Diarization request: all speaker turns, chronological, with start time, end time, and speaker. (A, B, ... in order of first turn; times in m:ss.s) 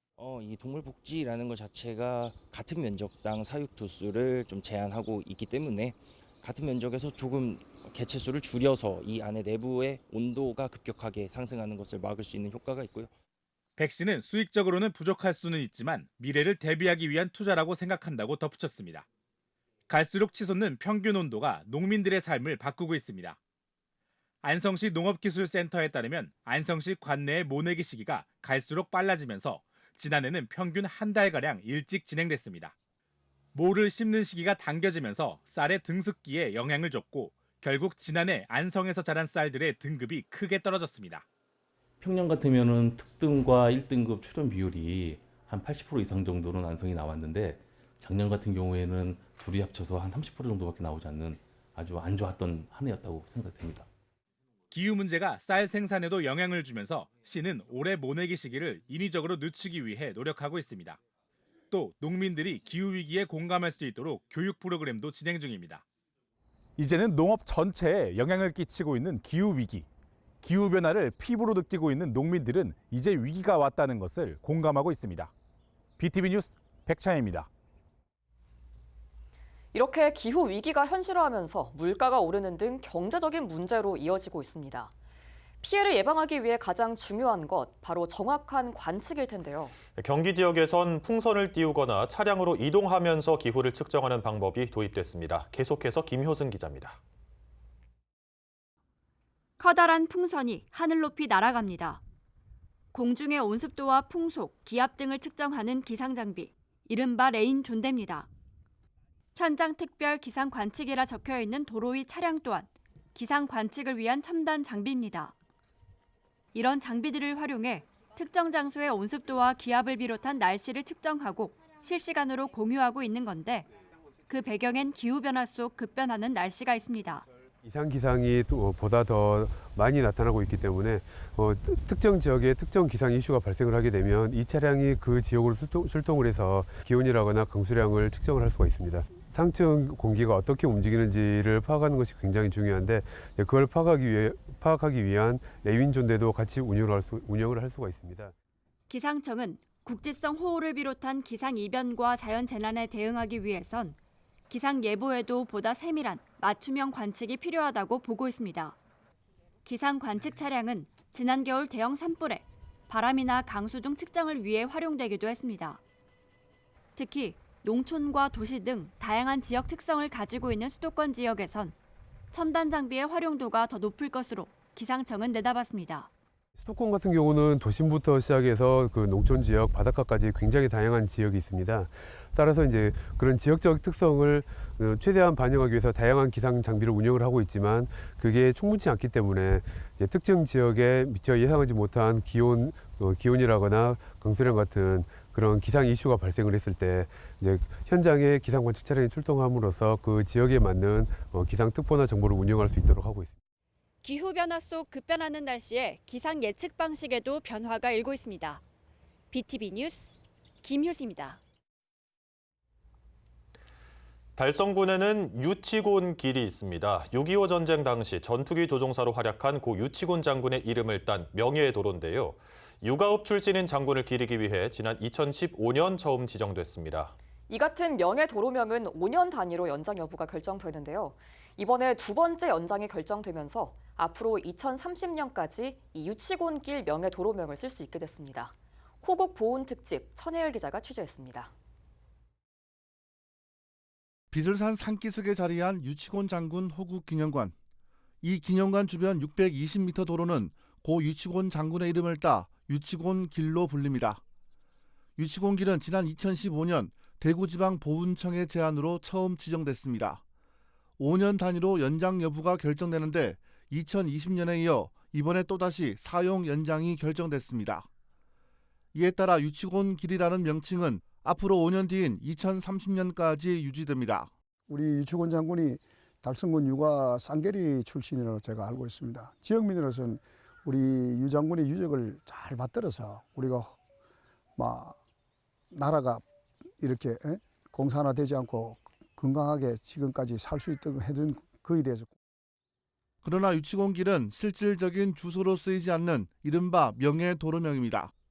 0:00.2-0:13.2 A
0:13.8-0:19.1 B
0:19.9-0:23.4 B
0:24.4-0:32.7 B
0:33.6-0:41.2 B
0:42.0-0:53.9 C
0:54.7-1:01.0 B
1:01.7-1:05.8 B
1:06.8-1:09.9 B
1:10.4-1:15.3 B
1:16.0-1:17.5 B
1:19.7-1:24.9 D
1:25.6-1:29.8 D
1:29.9-1:37.0 E
1:39.6-1:42.0 F
1:42.9-1:48.3 F
1:49.4-1:55.4 F
1:56.5-2:03.7 F
2:04.3-2:07.3 F
2:07.6-2:28.3 G
2:28.9-2:34.0 F
2:34.5-2:38.8 F
2:39.6-2:45.8 F
2:47.0-2:51.8 F
2:52.3-2:56.1 F
2:56.6-3:23.3 G
3:24.0-3:28.6 F
3:29.3-3:31.4 F
3:34.4-3:47.1 E
3:47.5-4:01.5 D
4:04.3-4:07.5 H
4:08.2-4:14.2 H
4:15.2-4:20.2 H
4:21.0-4:27.9 H
4:28.9-4:34.3 H
4:34.7-4:43.7 I
4:44.6-4:45.0 I
4:45.7-4:46.2 I
4:46.8-4:52.1 I
4:53.2-4:58.1 H